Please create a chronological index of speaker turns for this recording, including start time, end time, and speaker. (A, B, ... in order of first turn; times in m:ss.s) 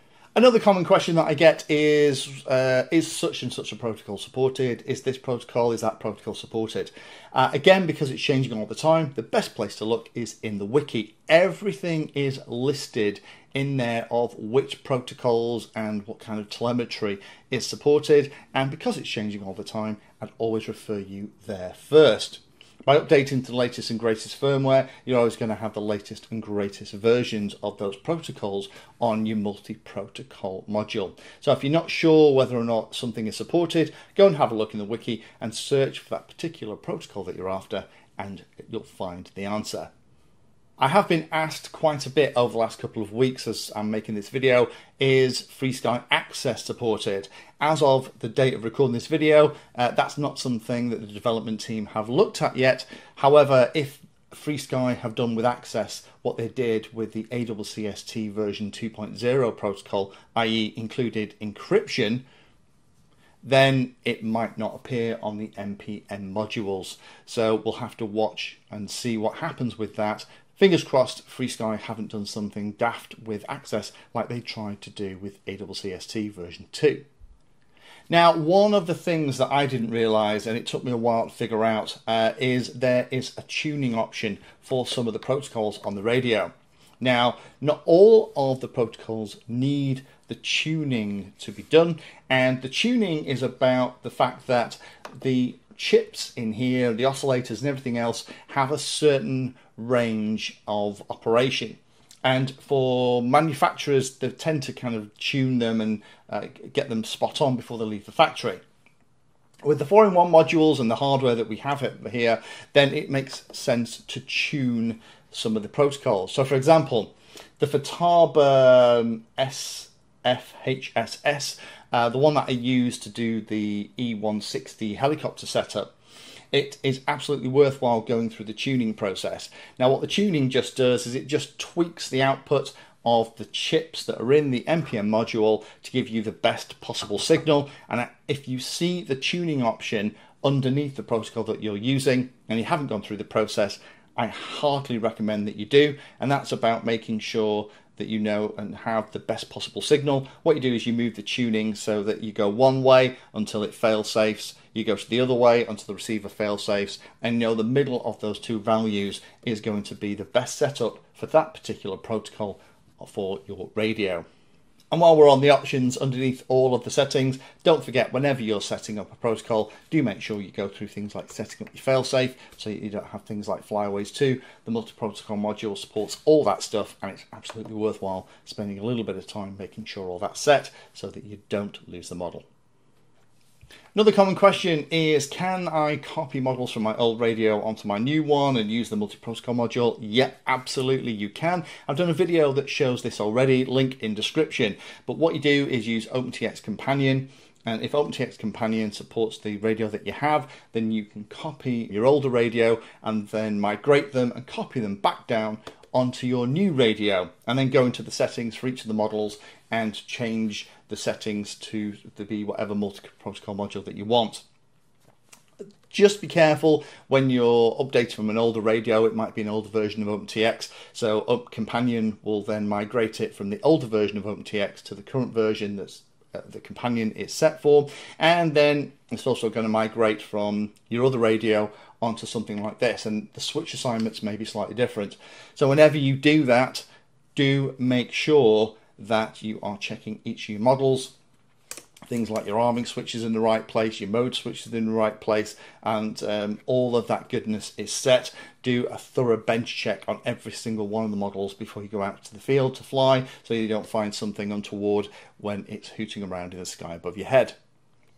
0:00.4-0:39.9 A
0:40.8-1:02.2 A
1:03.4-1:17.0 A
1:18.1-1:48.6 A
1:49.6-2:05.9 A
2:06.5-2:44.2 A
2:44.9-3:02.4 A
3:03.9-3:34.4 A
3:35.9-4:01.1 A
4:02.1-4:17.6 A